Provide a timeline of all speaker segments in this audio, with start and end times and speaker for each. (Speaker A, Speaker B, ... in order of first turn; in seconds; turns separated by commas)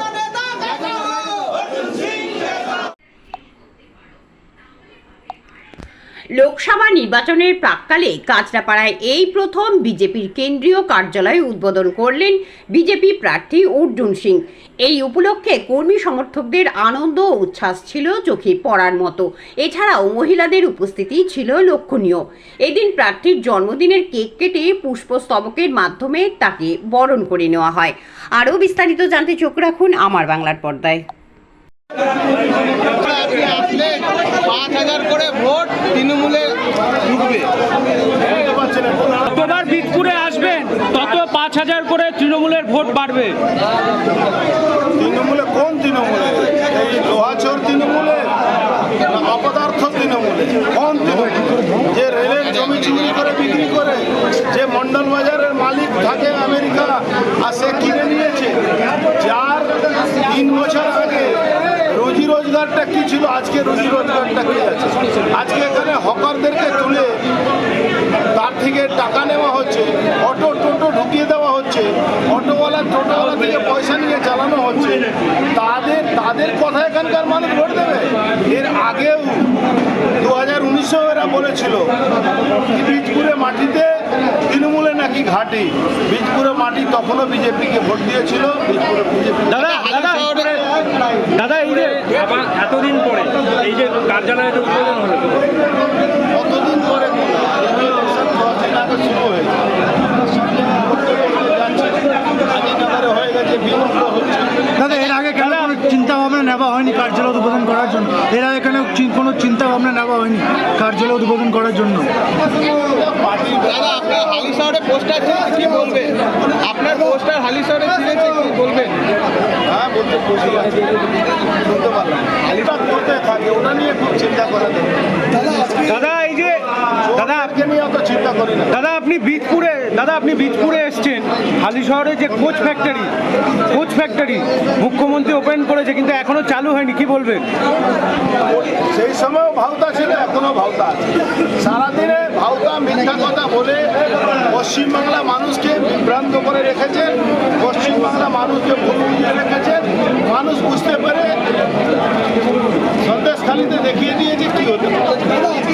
Speaker A: 6.3-31.0, Speaker B: 32.8-36.6, Speaker B: 37.1-37.5, Speaker C: 38.3-39.3, Speaker D: 39.3-43.4, Speaker C: 45.0-48.3, Speaker C: 49.0-67.1, Speaker C: 68.3-79.5, Speaker C: 80.2-81.9, Speaker C: 82.7-89.6, Speaker D: 89.5-90.6, Speaker D: 91.3-95.3, Speaker C: 96.3-99.6, Speaker C: 100.4-104.5, Speaker E: 104.8-112.1, Speaker D: 105.4-105.7, Speaker C: 112.7-114.0, Speaker B: 113.8-119.0, Speaker C: 119.7-120.9, Speaker C: 121.5-125.0, Speaker D: 125.8-127.5, Speaker C: 127.0-128.8, Speaker D: 128.7-133.1, Speaker D: 133.7-137.5, Speaker C: 138.6-143.9, Speaker C: 144.5-151.4, Speaker C: 153.0-155.0